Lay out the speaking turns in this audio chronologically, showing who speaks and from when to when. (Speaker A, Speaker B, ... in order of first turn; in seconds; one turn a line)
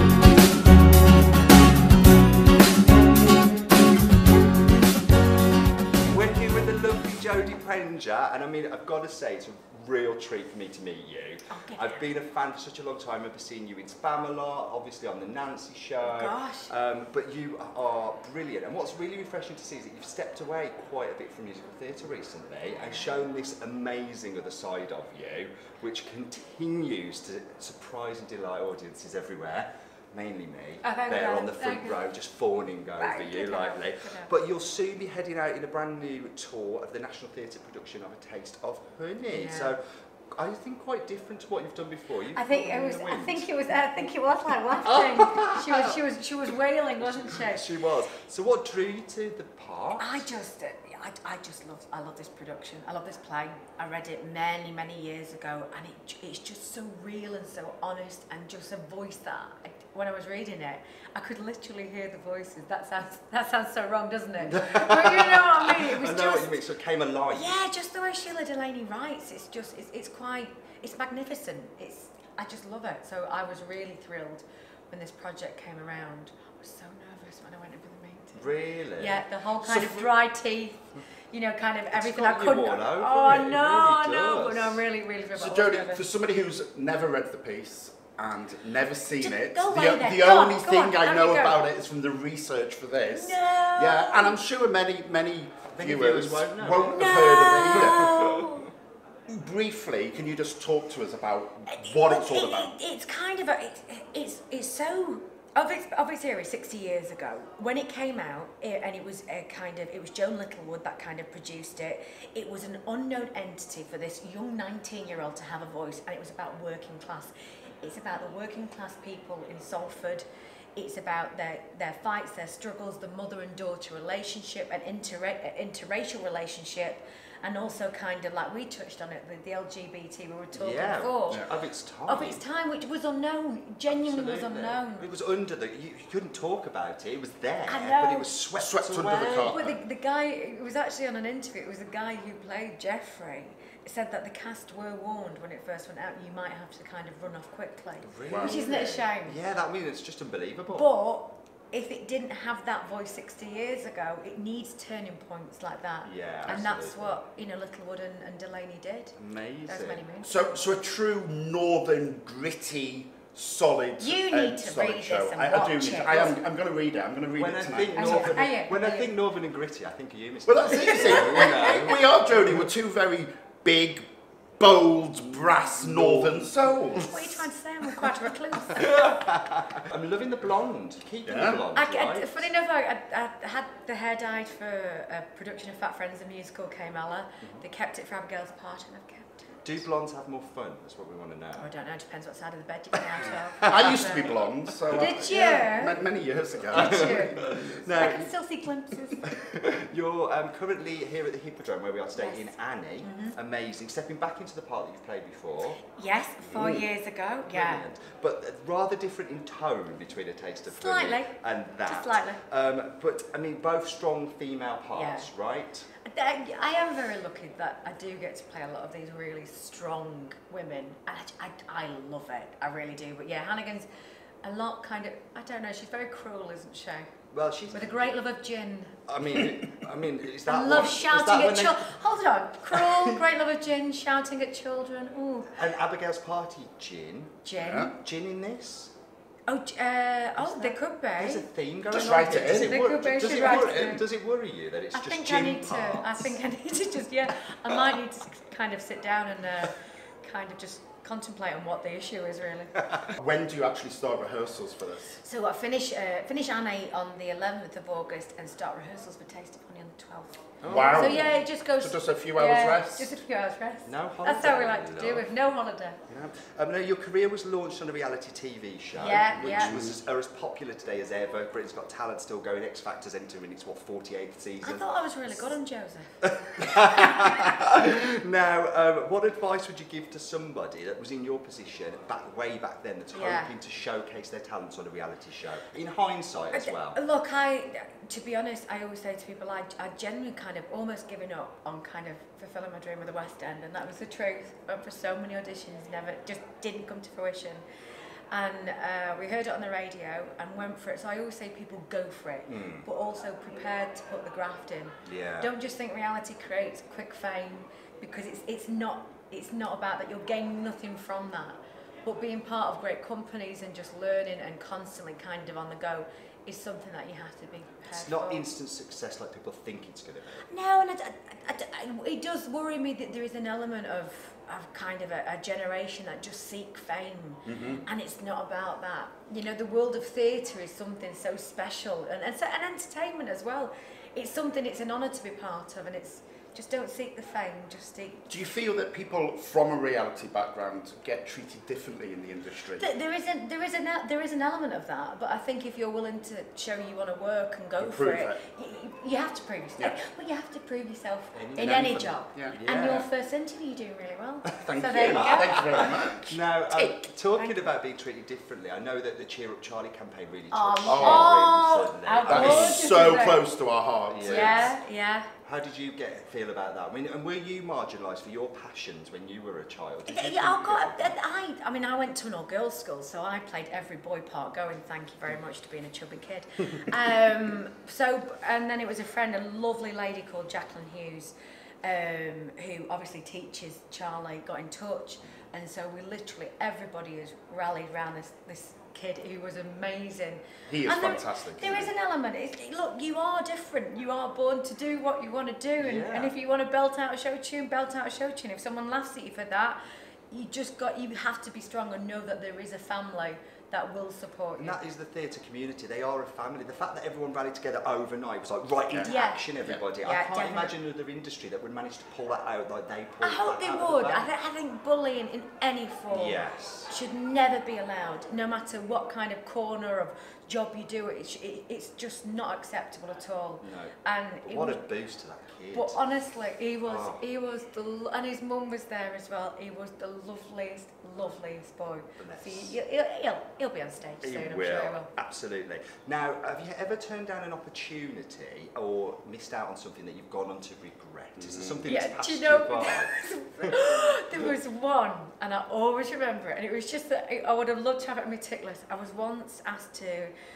Speaker A: 6.0-39.8
Speaker B: 11.5-12.1
Speaker B: 16.0-16.7
Speaker B: 22.8-23.1
Speaker B: 30.8-32.1
Speaker B: 33.0-34.3
Speaker B: 39.3-39.7
Speaker A: 40.3-43.8
Speaker B: 42.3-47.6
Speaker A: 44.8-46.0
Speaker A: 47.0-50.3
Speaker B: 50.0-66.5
Speaker A: 64.4-67.6
Speaker B: 67.3-86.0
Speaker A: 78.3-80.1
Speaker A: 81.9-84.8
Speaker C: 85.3-98.2
Speaker B: 89.2-91.6
Speaker B: 93.0-94.4
Speaker A: 95.7-98.7
Speaker B: 96.9-98.7
Speaker C: 99.3-102.7
Speaker B: 101.7-120.2
Speaker B: 120.8-131.4
Speaker A: 130.5-132.4
Speaker B: 132.1-135.1
Speaker A: 133.9-139.6
Speaker B: 137.7-138.4
Speaker C: 138.6-139.7
Speaker B: 139.0-149.4
Speaker A: 148.0-150.9
Speaker C: 148.3-148.6
Speaker B: 150.7-159.1
Speaker A: 156.0-157.2
Speaker A: 159.2-160.1
Speaker B: 159.7-160.7
Speaker C: 160.2-168.4
Speaker B: 164.0-166.4
Speaker A: 167.4-172.7
Speaker B: 167.9-169.1
Speaker C: 170.4-174.1
Speaker B: 170.8-171.9
Speaker C: 174.6-177.4
Speaker A: 175.2-176.5
Speaker B: 176.9-179.2
Speaker A: 178.7-182.5
Speaker C: 181.2-181.6
Speaker B: 181.7-189.8
Speaker A: 189.6-191.7
Speaker B: 191.6-196.0
Speaker A: 192.9-195.8
Speaker C: 193.6-198.1
Speaker B: 196.7-199.2
Speaker A: 196.7-198.3
Speaker A: 199.2-205.8
Speaker B: 202.1-203.3
Speaker B: 205.8-207.8
Speaker C: 206.4-206.8
Speaker A: 206.6-206.8
Speaker A: 207.5-215.8
Speaker B: 210.7-212.4
Speaker B: 214.9-215.3
Speaker B: 216.0-223.9
Speaker B: 224.4-227.1
Speaker A: 227.3-228.2
Speaker B: 227.7-229.0
Speaker A: 229.1-232.0
Speaker B: 230.5-235.5
Speaker A: 232.7-233.2
Speaker A: 235.5-238.9
Speaker B: 237.4-237.9
Speaker C: 237.6-237.9
Speaker B: 239.5-241.4
Speaker A: 240.3-246.3
Speaker C: 241.9-242.7
Speaker B: 242.2-244.1
Speaker B: 244.9-252.7
Speaker C: 253.1-255.2
Speaker B: 255.2-266.0
Speaker A: 260.6-261.4
Speaker C: 260.6-263.2
Speaker A: 263.8-265.3
Speaker A: 266.1-274.8
Speaker B: 268.9-269.8
Speaker C: 269.3-270.0
Speaker B: 274.6-276.1
Speaker A: 276.2-287.0
Speaker B: 276.7-277.4
Speaker B: 283.1-283.5
Speaker B: 286.5-297.6
Speaker B: 298.3-318.5
Speaker A: 302.4-302.9
Speaker A: 305.0-305.5
Speaker A: 317.9-320.5
Speaker B: 320.4-338.3
Speaker C: 327.4-327.8
Speaker A: 327.6-327.9
Speaker C: 338.3-342.9
Speaker B: 342.8-355.9
Speaker C: 347.8-348.4
Speaker A: 351.3-353.1
Speaker C: 351.6-352.6
Speaker C: 354.6-356.4
Speaker A: 355.1-362.9
Speaker B: 356.7-357.7
Speaker B: 360.5-363.5
Speaker C: 360.8-361.4
Speaker C: 362.2-364.7
Speaker A: 364.1-364.8
Speaker B: 364.2-365.3
Speaker A: 365.4-371.2
Speaker B: 370.1-399.8
Speaker C: 390.7-391.9
Speaker A: 395.8-396.3
Speaker B: 400.3-404.8
Speaker A: 404.6-414.3
Speaker B: 409.0-409.4
Speaker B: 410.0-410.7
Speaker B: 413.2-424.8
Speaker A: 416.1-416.9
Speaker A: 423.6-426.0
Speaker B: 425.7-435.1
Speaker A: 426.8-427.2
Speaker A: 432.2-432.8
Speaker A: 434.2-443.8
Speaker C: 441.4-441.9
Speaker B: 441.8-450.3